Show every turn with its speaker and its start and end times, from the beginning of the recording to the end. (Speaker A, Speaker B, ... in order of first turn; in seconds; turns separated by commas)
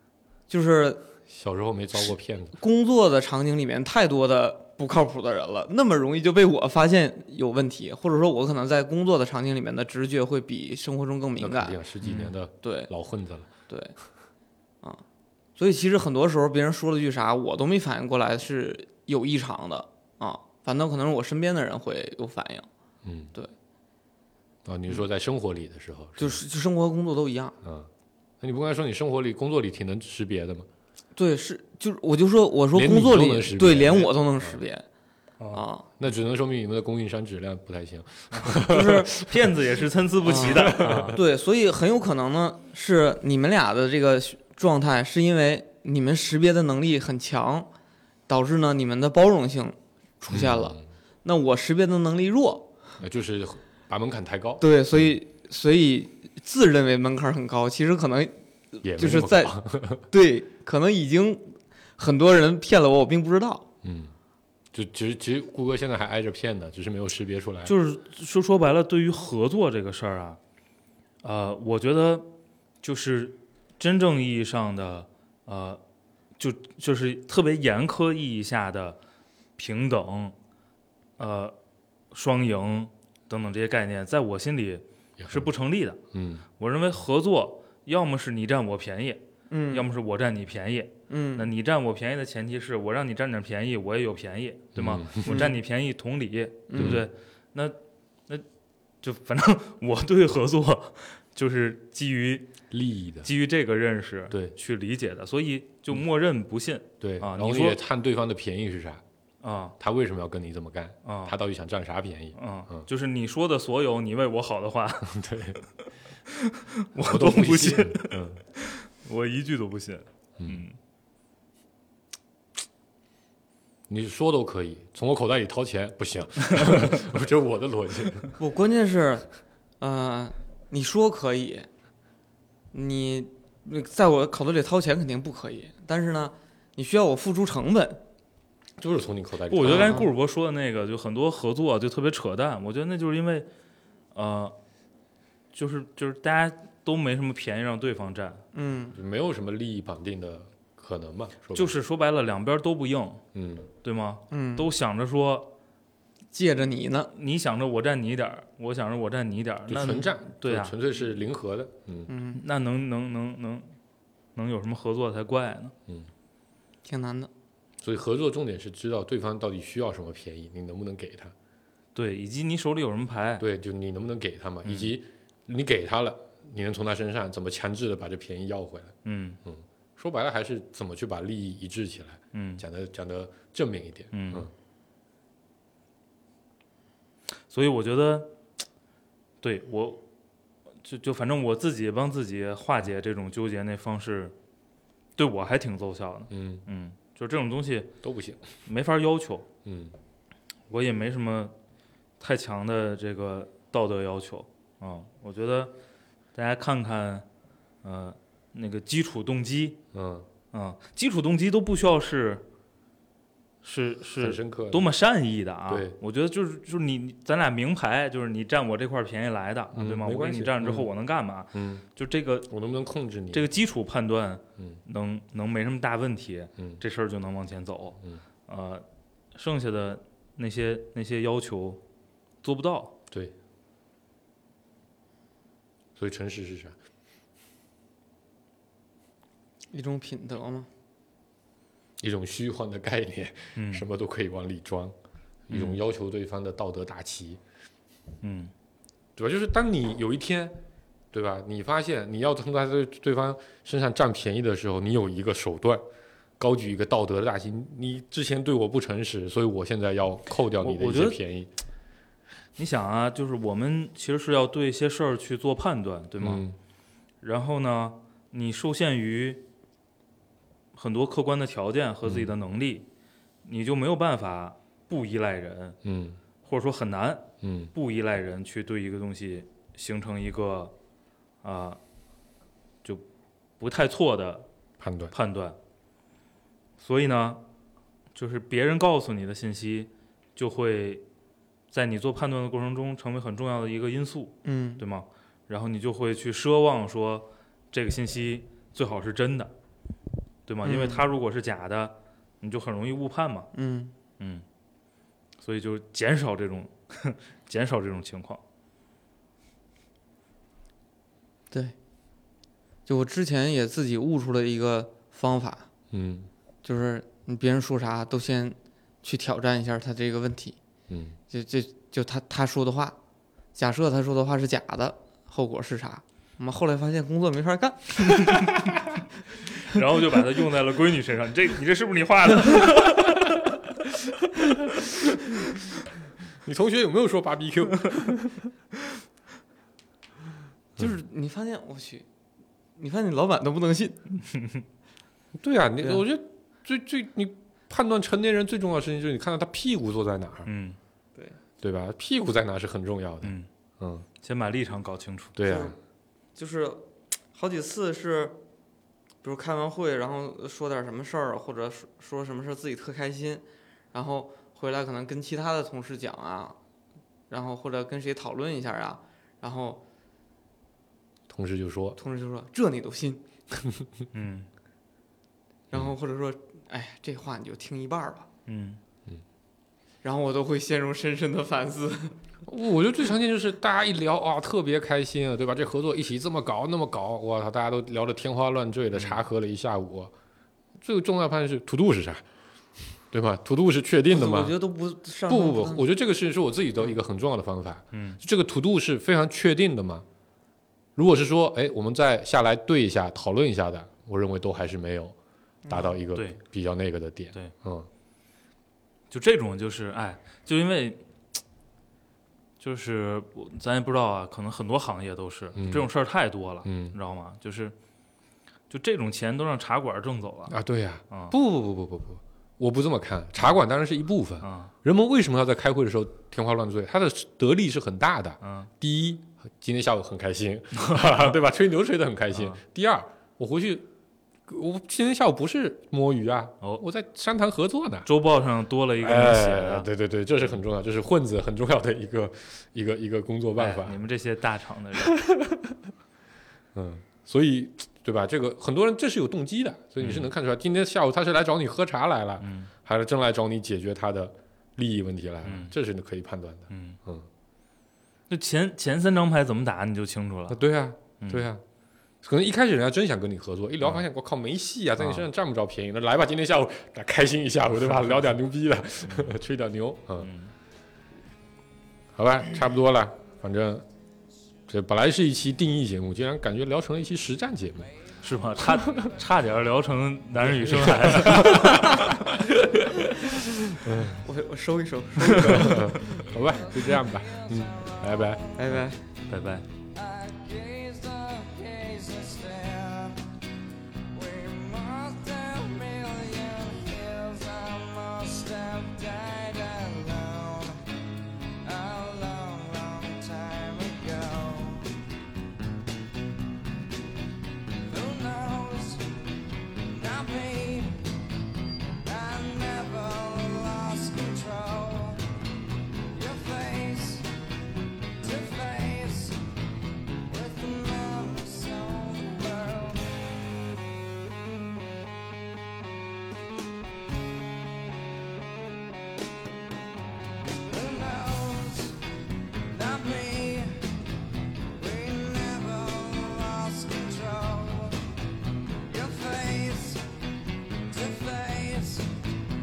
Speaker A: 0.5-1.1, Speaker B: 1.3-2.6, Speaker A: 2.6-11.8, Speaker B: 11.4-13.5, Speaker C: 12.0-12.3, Speaker A: 12.6-12.9, Speaker A: 13.7-13.9, Speaker A: 15.6-22.7, Speaker B: 23.0-23.3, Speaker B: 24.6-26.4, Speaker A: 26.2-27.5, Speaker B: 27.6-27.9, Speaker B: 28.4-30.7, Speaker A: 31.1-34.8, Speaker B: 32.7-34.6, Speaker A: 35.5-35.9, Speaker B: 36.0-39.5, Speaker C: 38.3-41.2, Speaker A: 38.7-39.1, Speaker A: 40.2-47.7, Speaker B: 40.3-41.2, Speaker A: 48.3-52.7, Speaker B: 50.3-50.8, Speaker B: 53.0-54.6, Speaker A: 54.6-63.6, Speaker B: 58.8-60.0, Speaker B: 63.8-64.1, Speaker B: 64.7-67.7, Speaker C: 67.6-70.4, Speaker C: 71.2-72.3, Speaker C: 72.8-75.8, Speaker C: 76.4-79.0, Speaker C: 79.6-80.3, Speaker C: 81.2-81.5, Speaker C: 82.1-86.0, Speaker B: 85.2-85.5, Speaker B: 86.1-86.4, Speaker C: 86.6-97.8, Speaker A: 89.5-89.9, Speaker A: 91.1-91.5, Speaker B: 94.7-95.4, Speaker A: 95.3-95.5, Speaker A: 96.7-97.0, Speaker B: 96.8-97.1, Speaker C: 99.0-102.5, Speaker B: 102.7-103.3, Speaker C: 103.2-107.8, Speaker B: 107.0-109.0, Speaker C: 109.4-109.7, Speaker B: 109.8-112.8, Speaker C: 111.0-111.3, Speaker C: 112.3-115.2, Speaker B: 115.1-115.6, Speaker C: 116.3-120.8, Speaker B: 117.0-118.4, Speaker B: 120.4-120.6, Speaker B: 123.9-128.3, Speaker A: 128.4-129.3, Speaker A: 129.8-131.7, Speaker A: 132.7-138.0, Speaker B: 138.8-140.0, Speaker C: 139.5-143.5, Speaker A: 139.7-140.1, Speaker C: 144.1-144.5, Speaker C: 145.5-148.4, Speaker A: 148.5-149.0, Speaker B: 148.9-151.7, Speaker C: 151.5-153.2, Speaker B: 153.3-153.7, Speaker C: 153.8-155.5, Speaker A: 154.3-154.7, Speaker A: 156.3-157.1, Speaker C: 157.1-160.8, Speaker B: 159.7-162.1, Speaker A: 162.1-162.4, Speaker C: 162.3-163.7, Speaker C: 164.3-165.7, Speaker A: 166.8-167.3, Speaker B: 167.8-171.3, Speaker C: 171.9-173.4, Speaker B: 173.4-184.5, Speaker C: 174.6-174.9, Speaker C: 179.0-179.4, Speaker C: 182.3-182.6, Speaker C: 184.1-184.5, Speaker C: 187.5-188.3, Speaker C: 189.4-190.0, Speaker C: 190.8-194.3, Speaker C: 195.2-197.9, Speaker B: 196.3-196.6, Speaker B: 198.0-198.4, Speaker C: 198.6-199.5, Speaker B: 199.6-199.9, Speaker C: 200.7-201.5, Speaker C: 202.2-205.7, Speaker C: 206.3-207.2, Speaker C: 207.8-209.8, Speaker B: 209.9-210.2, Speaker C: 210.5-212.4, Speaker C: 213.6-222.5, Speaker B: 214.2-214.9, Speaker B: 215.7-216.0, Speaker B: 219.7-220.9, Speaker B: 221.5-221.8, Speaker B: 222.5-223.4, Speaker C: 223.3-231.8, Speaker C: 232.4-233.0, Speaker B: 235.9-236.7, Speaker A: 239.7-240.7, Speaker B: 242.0-244.9, Speaker C: 243.6-243.8, Speaker B: 245.5-247.4, Speaker C: 245.5-245.8, Speaker C: 248.2-248.5, Speaker B: 249.2-250.6, Speaker B: 251.1-255.8, Speaker B: 256.4-261.5, Speaker C: 260.6-261.2, Speaker C: 262.6-266.4, Speaker B: 266.2-266.6, Speaker C: 267.2-269.5, Speaker C: 270.7-272.9, Speaker B: 272.0-272.3, Speaker C: 273.4-275.8, Speaker B: 275.8-276.2, Speaker C: 276.4-280.7, Speaker B: 277.4-277.7, Speaker C: 281.4-281.8, Speaker C: 283.6-284.5, Speaker B: 284.8-285.1, Speaker C: 285.1-285.6, Speaker C: 286.8-287.4, Speaker C: 288.1-291.0, Speaker C: 291.7-299.5, Speaker A: 294.4-294.8, Speaker C: 300.5-303.5, Speaker A: 300.6-301.0, Speaker A: 303.5-303.9, Speaker C: 304.2-304.4, Speaker C: 305.4-308.4, Speaker A: 312.9-315.7, Speaker B: 315.9-316.3, Speaker A: 316.6-320.6, Speaker B: 320.9-321.2, Speaker A: 321.3-322.9, Speaker A: 323.5-328.5, Speaker C: 329.6-333.5, Speaker B: 336.4-338.5, Speaker A: 340.8-342.1, Speaker A: 342.8-344.0, Speaker C: 344.3-344.6, Speaker B: 345.4-350.5, Speaker C: 350.4-350.8, Speaker B: 351.6-354.1, Speaker C: 353.2-353.5, Speaker C: 354.2-355.4, Speaker B: 355.4-355.7, Speaker A: 355.4-355.8, Speaker A: 356.3-356.8, Speaker A: 357.3-358.4, Speaker A: 359.2-366.6, Speaker A: 367.3-369.8, Speaker B: 371.3-372.0, Speaker A: 372.0-373.2, Speaker C: 374.1-374.5, Speaker A: 375.7-378.3, Speaker C: 378.5-378.8, Speaker A: 380.0-382.2, Speaker B: 382.4-390.1, Speaker C: 388.9-389.2, Speaker B: 390.8-392.2, Speaker B: 393.0-394.5, Speaker A: 394.1-395.9, Speaker B: 395.3-400.0, Speaker C: 397.9-398.2, Speaker B: 400.9-405.1, Speaker A: 405.6-405.9, Speaker B: 405.7-407.9, Speaker C: 406.1-406.4, Speaker C: 409.1-411.0, Speaker C: 412.6-417.7, Speaker B: 415.6-415.9, Speaker B: 416.6-416.9, Speaker C: 418.7-420.5, Speaker B: 420.5-433.9, Speaker C: 421.1-421.4, Speaker C: 424.4-424.7, Speaker C: 428.4-428.7, Speaker C: 430.8-431.1, Speaker C: 432.3-432.6, Speaker B: 434.5-438.1, Speaker C: 438.1-439.9, Speaker B: 439.0-444.0, Speaker C: 443.6-445.1, Speaker B: 445.0-445.8, Speaker B: 446.7-457.3, Speaker C: 450.0-450.3, Speaker C: 452.4-452.7, Speaker C: 455.4-455.7, Speaker C: 456.7-457.0, Speaker C: 458.3-460.6, Speaker B: 460.5-461.6, Speaker C: 461.2-461.5, Speaker B: 462.2-470.3, Speaker C: 465.0-465.3, Speaker C: 467.8-468.3, Speaker C: 469.0-469.4, Speaker C: 470.2-470.5, Speaker B: 472.1-473.8, Speaker B: 474.7-477.9, Speaker D: 477.8-479.2, Speaker C: 478.2-482.4, Speaker B: 480.4-483.0, Speaker B: 483.8-484.2, Speaker A: 484.2-486.1, Speaker B: 485.2-488.4, Speaker C: 485.2-485.8, Speaker D: 486.3-488.8, Speaker A: 488.6-489.0, Speaker C: 489.3-489.6, Speaker D: 489.9-493.2, Speaker D: 494.1-500.8, Speaker D: 501.6-504.9, Speaker D: 507.8-509.2, Speaker D: 509.8-511.1, Speaker D: 512.0-515.3, Speaker D: 516.1-517.3, Speaker D: 518.2-519.5, Speaker D: 520.2-523.3, Speaker D: 530.5-532.0, Speaker D: 532.7-534.0, Speaker D: 534.7-538.1, Speaker D: 538.8-540.1, Speaker D: 540.9-542.3